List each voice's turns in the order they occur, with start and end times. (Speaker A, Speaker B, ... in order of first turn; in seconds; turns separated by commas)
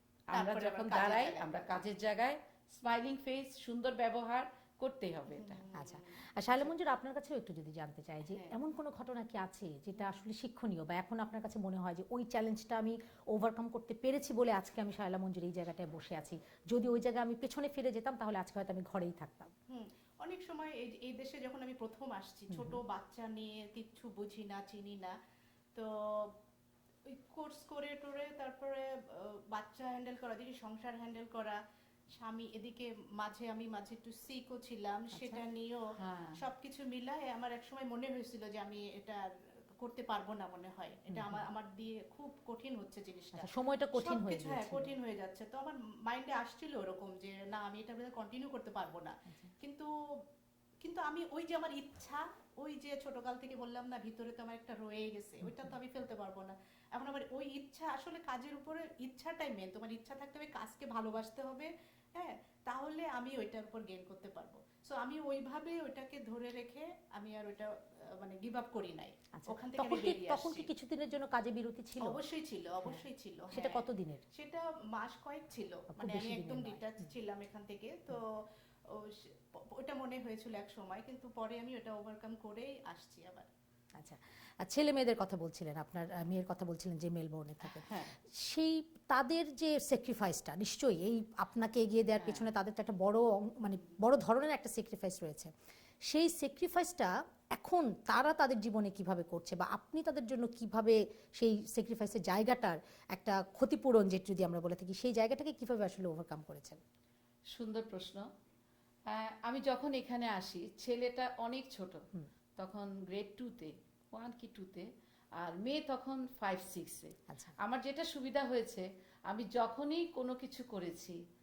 Speaker A: 0.3-5.6, Speaker B: 0.3-1.7, Speaker B: 5.3-6.7, Speaker C: 5.7-19.5, Speaker B: 8.3-8.6, Speaker B: 19.7-25.1, Speaker C: 22.5-22.8, Speaker B: 25.7-26.3, Speaker B: 27.1-31.6, Speaker B: 32.1-35.9, Speaker C: 35.1-35.4, Speaker A: 36.0-36.4, Speaker B: 36.4-39.2, Speaker B: 39.8-49.9, Speaker C: 41.1-41.5, Speaker C: 43.3-44.9, Speaker B: 50.8-70.7, Speaker C: 55.5-55.7, Speaker C: 69.3-72.2, Speaker B: 72.0-83.5, Speaker C: 72.8-74.2, Speaker C: 75.9-76.8, Speaker C: 84.0-95.5, Speaker A: 87.7-88.1, Speaker A: 92.2-92.5, Speaker C: 96.1-106.8, Speaker A: 107.5-108.2, Speaker A: 109.1-112.0, Speaker A: 112.6-121.2, Speaker C: 117.3-117.5